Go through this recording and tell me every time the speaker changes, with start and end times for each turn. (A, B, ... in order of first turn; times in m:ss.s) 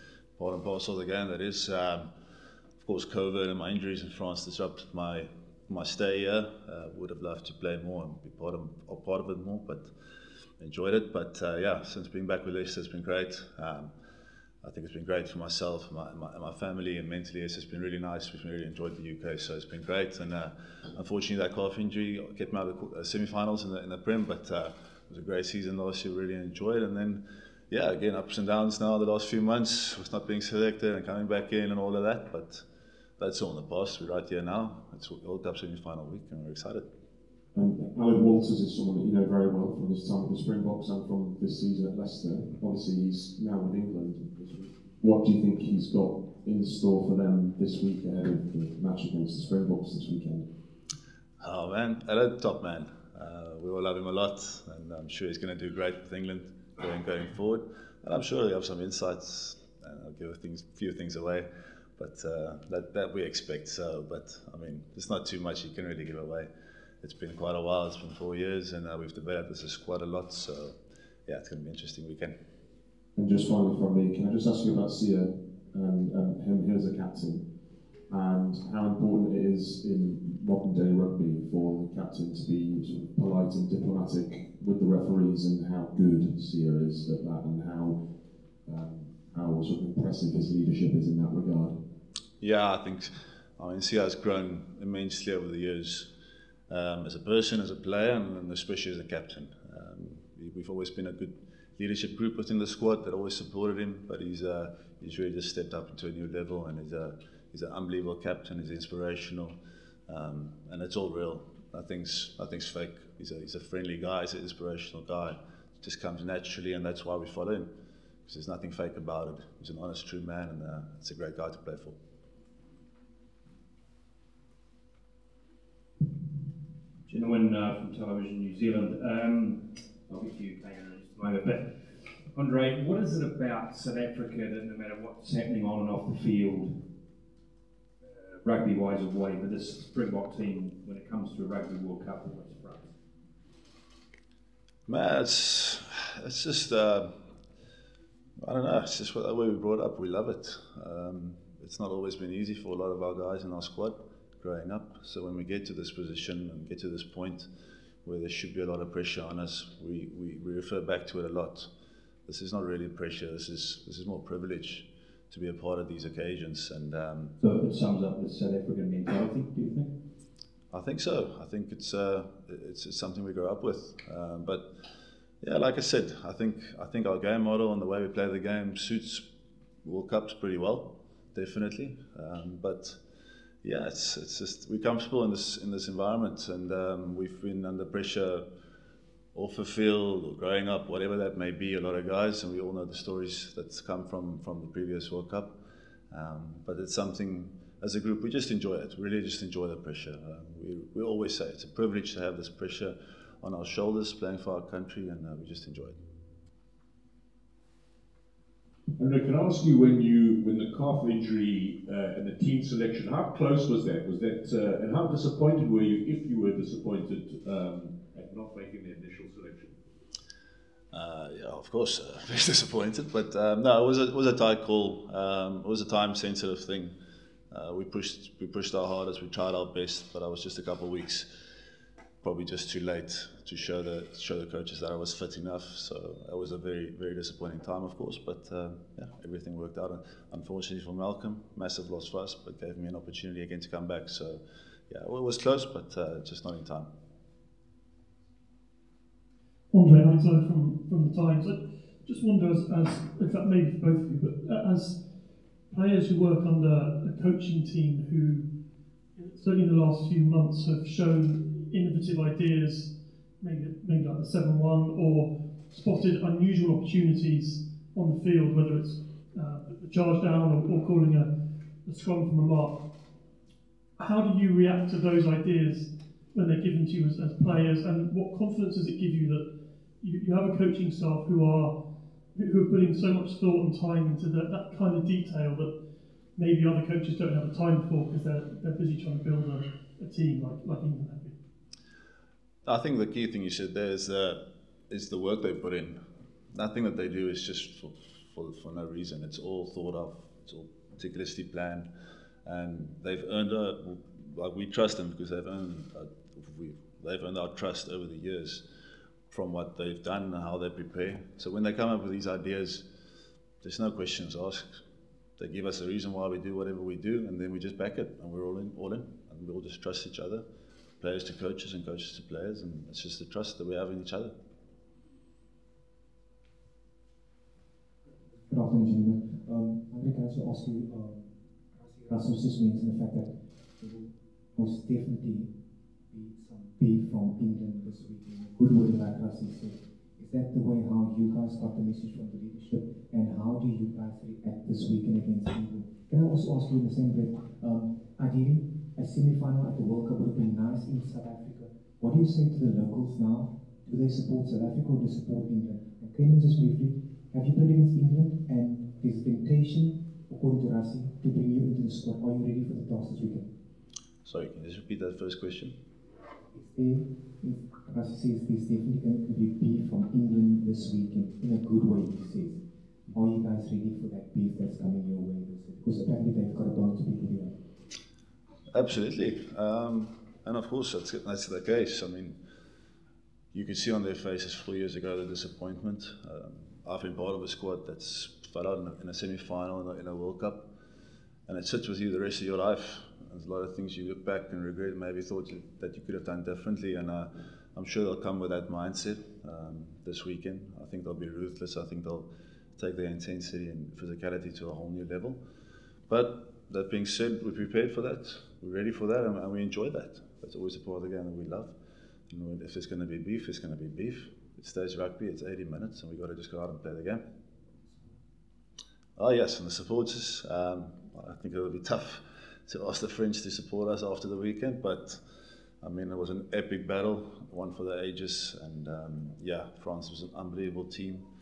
0:00.4-0:02.1 A
0:02.8-0:09.9 A
0:10.6-0:13.9 A
0:14.6-0:32.6 A
0:33.2-0:36.8 A
0:37.5-0:50.4 B
0:51.4-1:06.5 A
1:07.0-1:12.3 A
1:13.2-1:17.4 B
1:18.1-1:28.0 B
1:28.6-1:31.8 B
1:32.4-1:36.1 A
1:36.7-1:49.6 A
1:50.1-1:57.7 A
1:58.2-2:02.0 A
2:07.1-2:09.6 C
2:10.1-2:11.6 C
2:12.4-2:13.5 D
2:12.6-2:16.7 C
2:18.2-2:22.9 C
2:24.9-2:27.1 A
2:28.4-2:37.5 A
2:38.0-2:41.7 A
2:42.3-2:47.3 A
2:47.4-2:49.9 C
2:50.7-2:54.7 A
2:55.4-2:59.3 A
2:59.8-3:03.0 A
3:03.6-3:08.4 A
3:09.3-3:15.6 A
3:16.1-3:26.0 A
3:29.0-3:39.7 D
3:40.9-3:46.9 A
3:47.5-3:51.3 A
3:52.2-4:06.9 A
4:09.7-4:15.0 E
4:15.7-4:18.4 E
4:19.2-4:31.3 E
4:31.8-4:32.8 E
4:34.0-4:39.5 E
4:40.0-4:41.8 E
4:42.3-4:45.7 E
4:46.4-4:51.3 E
4:52.6-4:56.0 A
4:56.5-5:01.9 A
5:02.4-5:08.6 A
5:09.3-5:12.8 A
5:13.6-5:14.8 A
5:15.4-5:20.4 A
5:21.0-5:24.3 A
5:28.4-5:35.5 F
5:36.1-6:03.5 F
6:04.2-6:05.7 A
6:06.5-6:12.6 F
6:13.1-6:17.5 F
6:18.7-6:22.4 A
6:23.5-6:30.7 A
6:31.5-6:45.4 A
6:46.1-6:51.7 A
6:52.3-6:57.2 A
6:59.2-7:05.2 A
7:05.8-7:11.2 A